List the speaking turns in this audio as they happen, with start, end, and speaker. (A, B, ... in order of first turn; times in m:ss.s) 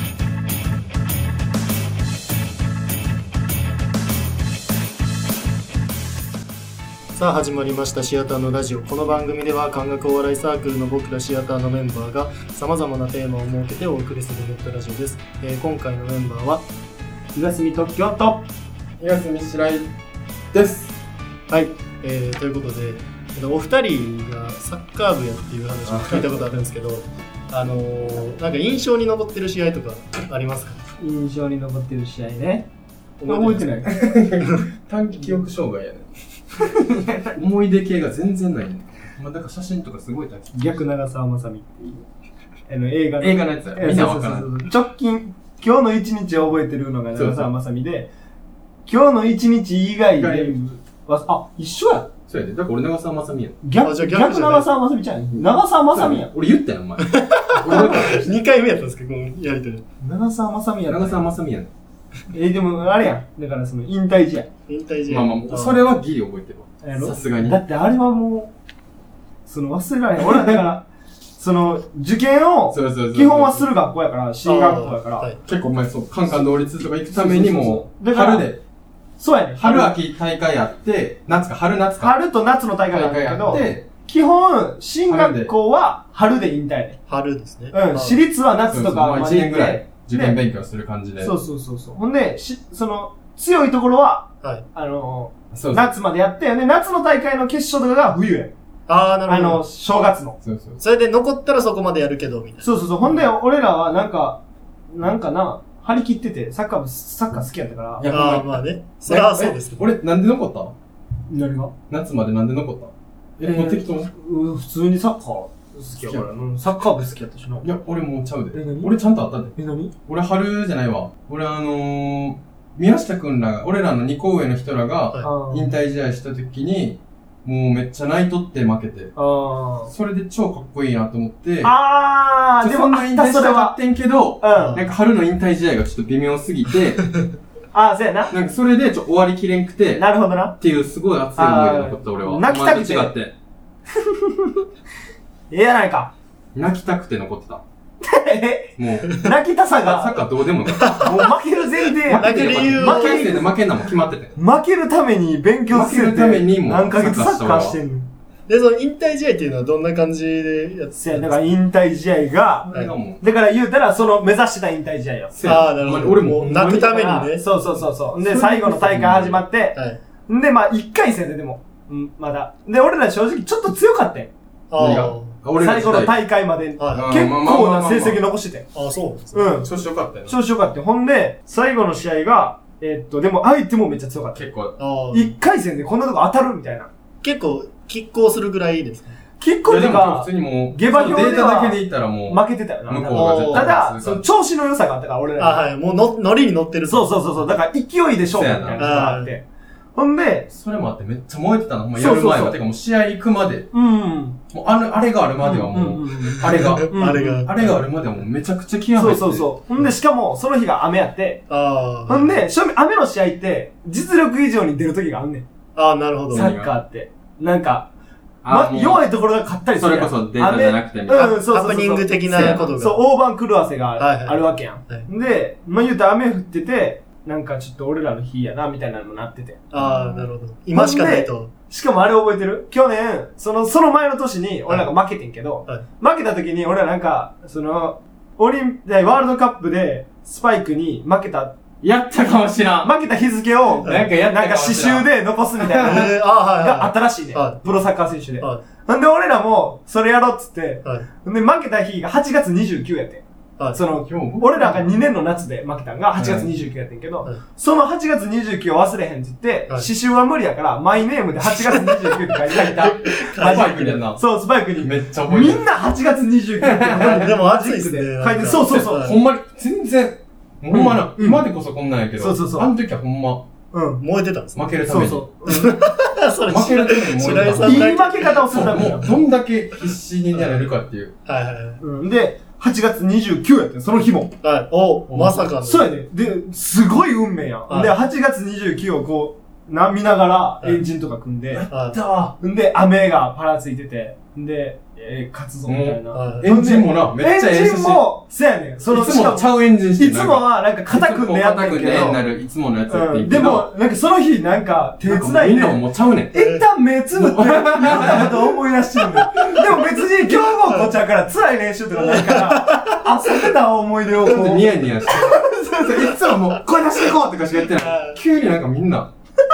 0:07.2-0:16.7 A
0:17.3-0:18.4 B
0:19.0-0:19.9 C
0:20.5-0:21.0 C
0:21.5-0:30.8 A
0:25.9-0:26.3 C
0:31.0-0:32.7 B
0:33.2-0:33.7 A
0:33.3-0:33.9 B
0:33.9-0:40.5 C
0:40.5-0:42.0 B
0:42.7-0:48.1 B
0:43.2-0:44.6 C
0:47.2-0:47.5 C
0:48.9-0:52.1 B
0:50.2-0:50.5 C
0:52.3-0:53.6 C
0:53.6-0:56.3 B
0:53.8-0:54.7 A
0:55.9-0:58.3 C
0:57.0-0:59.8 A
1:00.0-1:01.3 B
1:00.9-1:01.7 C
1:02.3-1:04.5 B
1:04.7-1:05.8 A
1:05.1-1:07.6 C
1:06.8-1:08.5 B
1:09.5-1:10.9 B
1:11.4-1:15.3 B
1:12.7-1:13.7 C
1:14.4-1:15.4 A
1:15.4-1:18.6 C
1:17.1-1:18.5 B
1:19.2-1:19.9 B
1:19.6-1:22.2 C
1:22.0-1:27.0 B
1:22.9-1:23.9 C
1:25.1-1:25.5 C
1:27.1-1:28.2 A
1:27.7-1:30.4 B
1:28.7-1:31.3 C
1:31.2-1:38.5 B
1:35.5-1:35.9 C
1:38.9-1:39.6 A
1:39.3-1:40.4 B
1:40.4-1:40.8 C
1:40.8-1:42.7 A
1:42.6-1:44.4 B
1:44.9-1:48.1 B
1:48.0-1:48.5 C
1:48.1-1:49.9 A
1:49.1-1:49.6 B
1:49.7-1:50.7 C
1:51.3-1:51.7 B
1:51.9-1:54.1 C
1:53.4-1:57.7 B
1:57.6-1:59.5 C
1:58.5-1:58.9 B
1:59.6-1:59.9 B
2:00.1-2:09.1 C
2:05.2-2:05.8 B
2:09.2-2:09.9 B
2:09.9-2:11.7 C
2:11.6-2:13.8 B
2:12.6-2:17.1 C
2:14.4-2:14.8 B
2:14.6-2:14.9 A
2:17.7-2:18.3 B
2:18.3-2:20.1 C
2:20.0-2:20.6 B
2:20.6-2:23.3 C
2:21.4-2:23.1 B
2:24.2-2:24.5 B
2:25.5-2:26.1 B
2:26.6-2:27.6 C
2:28.0-2:30.2 B
2:28.8-2:29.2 C
2:29.8-2:31.2 C
2:30.9-2:33.4 B
2:32.1-2:34.4 C
2:32.2-2:33.4 A
2:34.4-2:38.1 B
2:35.7-2:37.8 C
2:38.5-2:41.5 A
2:41.0-2:45.4 B
2:42.6-2:43.2 C
2:45.3-2:47.1 C
2:45.4-2:47.5 A
2:47.0-2:54.3 B
2:48.2-2:50.0 A
2:54.7-2:55.4 A
2:54.8-2:56.1 C
2:55.6-2:58.7 B
2:56.8-2:57.1 A
2:57.0-2:58.2 C
2:58.7-2:59.5 A
2:59.3-2:59.7 B
2:59.6-3:00.4 C
3:00.3-3:04.5 B
3:04.4-3:04.8 C
3:04.8-3:05.3 A
3:05.1-3:06.9 B
3:07.2-3:09.2 A
3:09.4-3:15.7 B
3:09.7-3:14.2 C
3:13.1-3:13.8 A
3:15.4-3:17.1 A
3:16.9-3:19.4 B
3:18.3-3:19.0 C
3:18.8-3:19.3 A
3:20.0-3:20.5 B
3:20.5-3:23.7 C
3:22.0-3:22.6 B
3:23.7-3:24.4 B
3:24.5-3:29.5 C
3:25.4-3:27.7 B
3:26.4-3:27.6 A
3:29.0-3:31.4 B
3:31.5-3:32.4 A
3:32.1-3:35.5 B
3:35.8-3:36.5 A
3:36.3-3:37.9 B
3:36.3-3:36.7 C
3:38.4-3:39.0 C
3:38.5-4:01.5 B
3:39.8-3:41.4 C
3:41.2-3:43.0 A
3:42.3-3:42.7 C
3:44.0-3:45.1 A
3:49.7-3:51.5 A
4:01.8-4:02.9 C
4:02.8-4:29.1 B
4:03.8-4:05.1 C
4:05.6-4:06.0 C
4:05.8-4:07.6 A
4:14.1-4:14.9 C
4:16.1-4:16.5 C
4:21.7-4:22.0 A
4:22.5-4:24.2 C
4:23.3-4:23.9 A
4:24.8-4:25.7 C
4:26.6-4:27.3 C
4:27.0-4:29.2 A
4:28.6-4:33.4 C
4:30.7-4:31.5 B
4:32.2-4:32.7 B
4:33.7-4:34.0 B
4:34.0-4:39.1 A
4:34.6-4:35.3 C
4:34.8-4:35.8 B
4:36.5-4:41.1 C
4:37.6-4:39.1 B
4:40.3-4:40.7 A
4:41.3-4:41.8 A
4:41.8-4:44.3 B
4:44.4-4:45.9 A
4:45.1-4:45.4 C
4:45.6-4:51.7 B
4:47.7-4:47.9 A
4:51.5-4:52.3 C
4:51.7-4:52.0 A
4:52.3-5:02.2 B
4:55.7-4:58.0 C
4:56.1-4:56.5 A
4:58.9-5:03.7 C
5:02.9-5:05.8 B
5:05.0-5:06.3 C
5:06.3-5:16.8 B
5:06.4-5:06.6 A
5:07.1-5:08.4 C
5:12.0-5:13.0 A
5:14.2-5:19.1 C
5:17.8-5:18.2 A